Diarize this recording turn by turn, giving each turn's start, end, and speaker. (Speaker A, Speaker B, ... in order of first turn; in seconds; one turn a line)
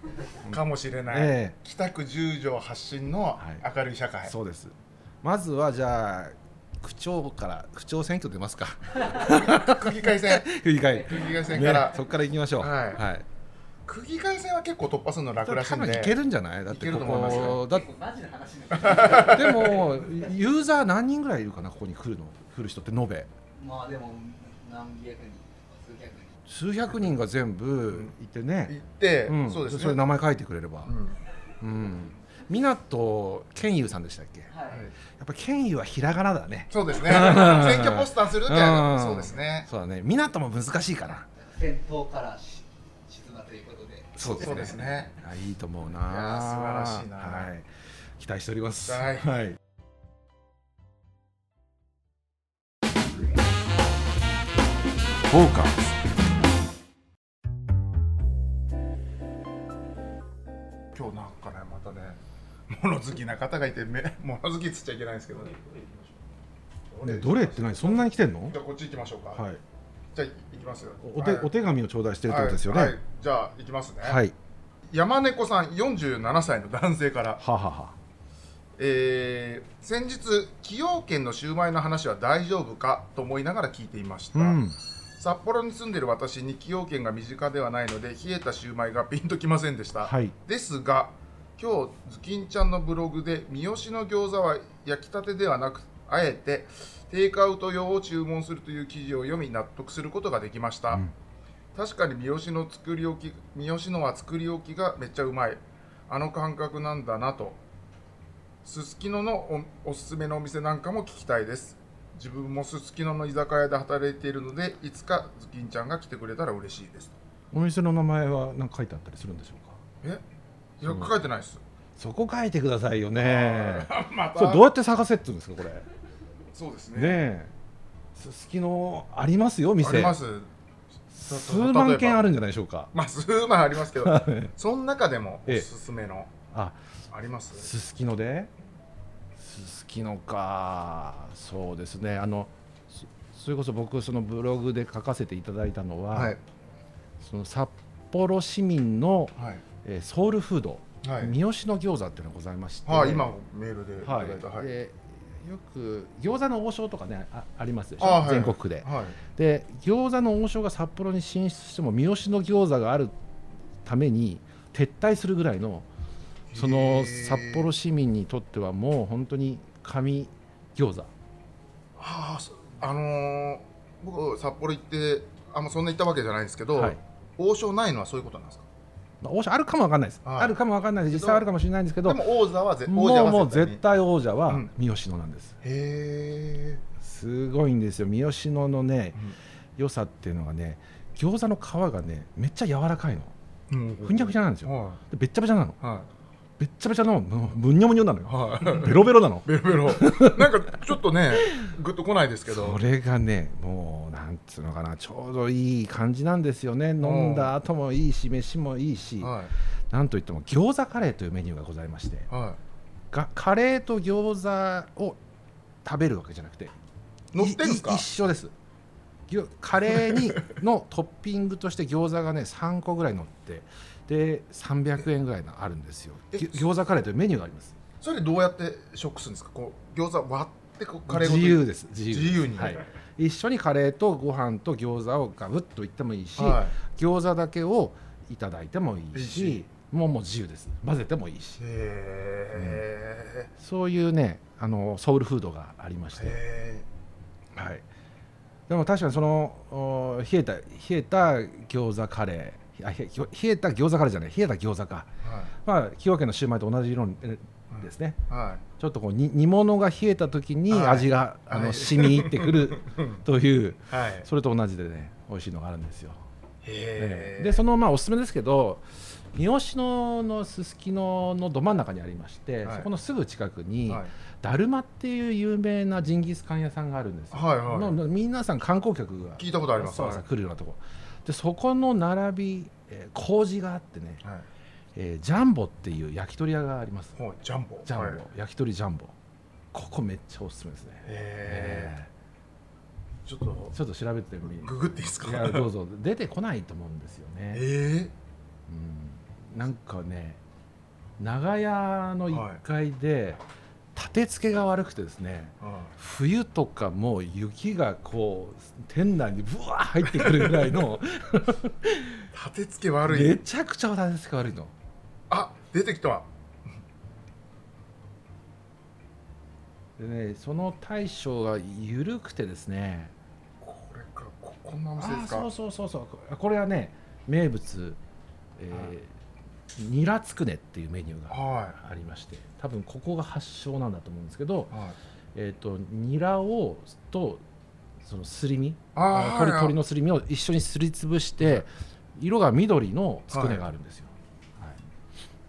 Speaker A: 0.4-1.6
Speaker B: 0.4-4.3
Speaker A: 4.2-13.2
Speaker B: 9.0-12.0
Speaker C: 10.9-11.8
Speaker B: 12.6-13.0
Speaker B: 13.8-16.2
Speaker A: 15.4-17.9
Speaker B: 16.7-17.6
Speaker C: 17.4-20.3
Speaker B: 18.8-19.7
Speaker A: 18.9-23.3
Speaker C: 23.6-26.4
Speaker A: 26.5-30.9
Speaker B: 28.7-30.0
Speaker B: 30.8-31.2
Speaker A: 31.6-34.5
Speaker C: 34.5-34.9
Speaker A: 35.0-41.3
Speaker B: 36.7-39.7
Speaker C: 41.3-44.8
Speaker A: 44.1-49.6
Speaker B: 44.3-45.1
Speaker B: 46.0-47.5
Speaker B: 48.9-49.3
Speaker A: 55.3-55.9
Speaker B: 60.9-62.2
Speaker B: 62.7-65.7
Speaker B: 66.9-69.4
Speaker A: 67.0-68.5
Speaker A: 69.3-69.6
Speaker B: 70.1-71.5
Speaker A: 71.0-73.0
Speaker B: 72.2-74.2
Speaker A: 74.0-74.3
Speaker B: 74.9-77.4
Speaker A: 77.4-78.0
Speaker B: 78.8-84.6
Speaker A: 84.3-84.8
Speaker B: 85.2-101.0
Speaker A: 90.0-90.3
Speaker B: 101.7-107.6
Speaker B: 108.6-117.2
Speaker A: 117.5-119.8
Speaker B: 120.8-121.6
Speaker A: 120.8-121.1
Speaker A: 122.0-125.9
Speaker B: 123.2-124.7
Speaker B: 126.5-127.3
Speaker A: 126.9-127.5
Speaker A: 128.1-130.2
Speaker B: 129.8-130.5
Speaker A: 131.1-132.9
Speaker B: 131.2-132.2
Speaker B: 132.9-136.3
Speaker A: 133.9-134.5
Speaker A: 136.5-136.8
Speaker B: 137.1-137.7
Speaker A: 137.6-138.5
Speaker A: 139.3-146.4
Speaker B: 146.1-146.4
Speaker A: 147.2-153.3
Speaker B: 149.4-149.6
Speaker B: 151.0-151.3
Speaker B: 152.8-154.7
Speaker A: 154.0-163.2
Speaker B: 158.0-159.2
Speaker A: 163.8-165.9
Speaker B: 166.5-167.7
Speaker A: 166.5-171.1
Speaker B: 172.0-178.7
Speaker A: 176.7-177.0
Speaker A: 179.2-182.2
Speaker B: 180.2-180.6
Speaker B: 181.1-181.4
Speaker B: 182.0-183.8
Speaker A: 182.8-185.6
Speaker B: 185.6-186.8
Speaker A: 187.0-189.2
Speaker A: 189.8-193.3
Speaker B: 193.7-195.0
Speaker A: 194.0-195.8
Speaker B: 195.8-196.1
Speaker A: 196.6-200.7
Speaker B: 198.3-202.8
Speaker A: 201.3-201.7
Speaker A: 202.5-209.3
Speaker B: 207.0-207.5
Speaker B: 209.2-209.5
Speaker A: 209.9-212.3
Speaker B: 212.3-212.6
Speaker A: 213.1-215.2
Speaker A: 215.8-216.7
Speaker B: 217.3-218.0
Speaker A: 217.3-218.5
Speaker A: 219.3-227.7
Speaker B: 219.9-220.5
Speaker B: 226.3-226.7
Speaker B: 228.0-232.8
Speaker A: 231.1-241.6
Speaker B: 236.4-236.8
Speaker B: 239.1-239.6
Speaker B: 241.6-243.5
Speaker A: 242.5-242.8
Speaker A: 243.6-246.4
Speaker B: 246.2-246.8
Speaker A: 247.5-247.8
Speaker A: 248.7-255.1
Speaker B: 255.2-255.5
Speaker A: 255.6-258.2
Speaker B: 257.7-258.6
Speaker A: 258.8-266.2
Speaker B: 260.7-263.2
Speaker B: 263.9-264.3
Speaker B: 266.6-267.6
Speaker A: 267.0-284.2
Speaker B: 272.6-272.9
Speaker B: 277.3-277.9
Speaker B: 279.4-280.2
Speaker A: 284.9-287.2
Speaker B: 287.2-288.2
Speaker A: 287.8-289.1
Speaker A: 289.7-292.1
Speaker B: 291.0-291.9
Speaker B: 293.2-293.7
Speaker A: 293.7-297.6
Speaker B: 294.5-295.7
Speaker B: 297.5-298.1
Speaker A: 298.7-300.4
Speaker A: 301.2-303.4
Speaker B: 302.3-302.6
Speaker A: 303.9-312.3
Speaker B: 305.6-305.9
Speaker B: 310.1-310.7
Speaker B: 312.3-313.4
Speaker A: 313.0-314.7
Speaker B: 315.3-316.3
Speaker A: 320.0-323.1
Speaker B: 323.6-325.5
Speaker A: 325.0-328.0
Speaker A: 328.6-329.1
Speaker A: 329.7-334.7
Speaker B: 331.3-331.8
Speaker B: 334.7-335.0
Speaker A: 335.3-337.4
Speaker A: 338.0-344.8
Speaker B: 338.9-339.8
Speaker B: 343.3-343.6